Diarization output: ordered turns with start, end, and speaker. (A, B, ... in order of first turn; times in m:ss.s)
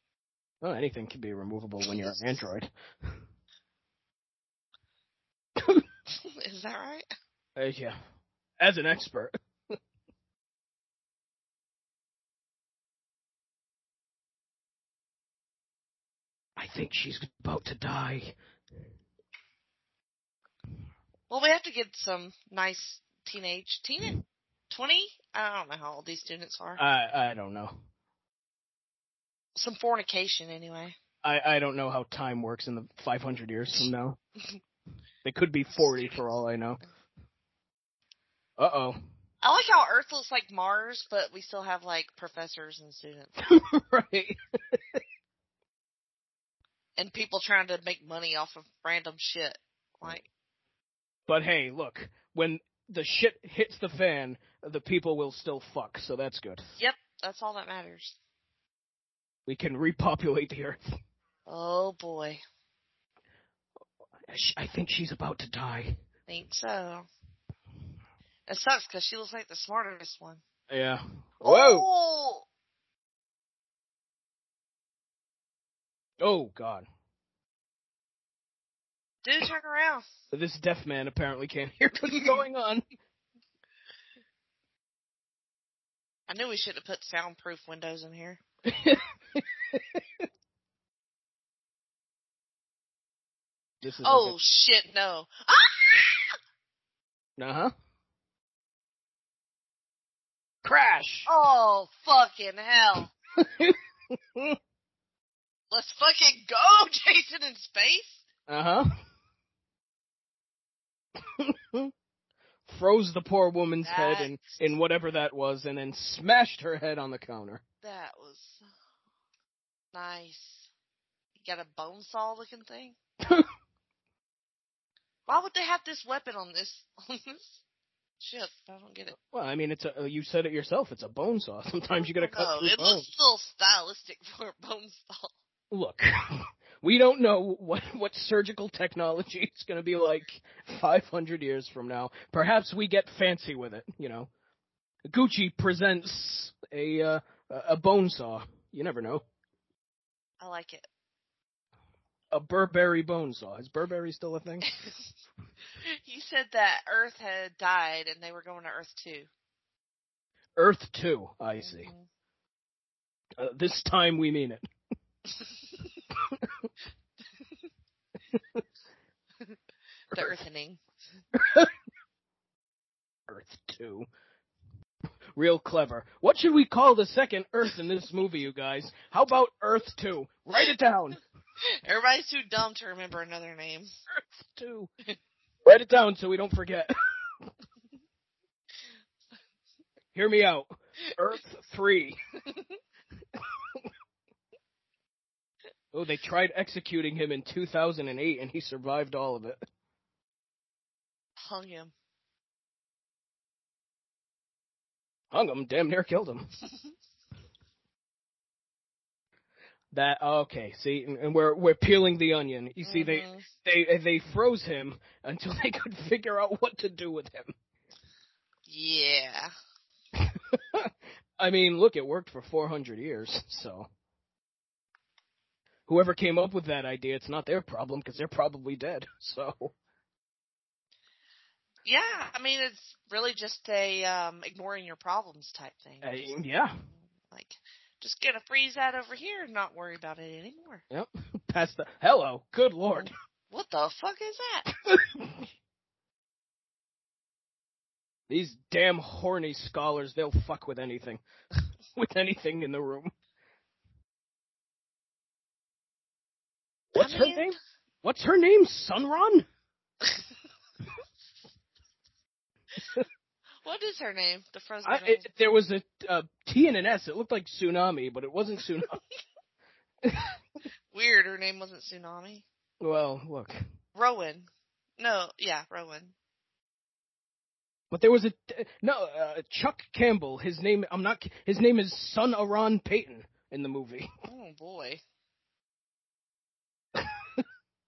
0:00.6-0:03.2 A
0:01.8-0:02.2 B
0:06.2-0:07.1 B
0:07.6-0:08.0 A
0:08.6-0:09.8 A
0:16.6-0:18.4 A
0:21.3-0:24.2 B
0:24.7-0:26.8 B
0:26.8-0:27.8 A
0:29.6-0:31.0 B
0:31.2-0:34.2 A
0:35.2-0:36.8 A
0:38.6-0:39.0 A
0:39.4-0:43.3 B
0:43.4-0:45.0 A
0:47.0-0:50.2 B
0:51.3-0:56.7 A
0:56.8-0:58.2 B
0:59.5-1:00.8 A
1:01.5-1:02.4 B
1:04.3-1:06.0 A
1:06.3-1:07.1 B
1:08.5-1:10.4 B
1:10.7-1:11.9 A
1:11.4-1:12.5 B
1:16.2-1:16.8 A
1:19.2-1:20.1 B
1:20.3-1:22.8 A
1:26.3-1:28.4 B
1:28.7-1:30.0 A
1:33.8-1:34.4 A
1:34.0-1:36.4 B
1:37.4-1:37.7 A
1:40.6-1:41.3 A
1:41.3-1:43.1 B
1:43.4-1:44.6 A
1:45.7-1:48.2 B
1:48.5-1:49.0 A
1:51.3-1:51.9 A
1:52.7-1:57.6 A
1:53.8-1:54.3 B
1:57.8-1:58.6 B
1:59.9-2:00.7 B
2:01.4-2:03.0 B
2:05.3-2:07.6 B
2:08.2-2:09.2 B
2:09.3-2:13.1 A
2:12.0-2:15.3 B
2:15.7-2:24.3 A
2:25.0-2:29.2 A
2:30.4-2:30.9 B
2:32.3-2:34.7 A
2:36.0-2:39.3 B
2:40.6-2:41.9 A
2:41.6-2:42.1 B
2:43.4-2:44.6 A
2:50.1-2:50.8 B
2:51.3-2:51.7 A
2:53.3-2:54.1 A
2:55.4-3:01.2 A
3:01.6-3:03.9 B
3:04.2-3:04.9 A
3:05.6-3:06.9 A
3:10.1-3:12.2 A
3:15.9-3:19.6 A
3:21.4-3:21.9 B
3:25.3-3:26.6 A
3:29.9-3:37.5 A
3:32.8-3:33.5 B
3:38.7-3:39.5 B
3:40.2-3:43.9 A
3:45.9-3:49.7 A
3:51.8-3:56.4 B
3:56.0-3:56.8 A
3:57.1-4:00.8 B
4:00.9-4:03.1 A
4:02.9-4:04.7 B
4:04.8-4:05.5 A
4:08.3-4:11.2 A
4:11.9-4:13.1 A
4:17.0-4:19.5 A
4:17.0-4:17.5 B
4:23.6-4:25.3 B
4:24.8-4:28.9 A
4:30.0-4:30.4 A
4:30.9-4:32.4 B
4:32.8-4:33.6 A
4:34.0-4:36.1 B
4:37.9-4:44.1 A
4:44.2-4:45.0 B
4:47.0-4:47.4 A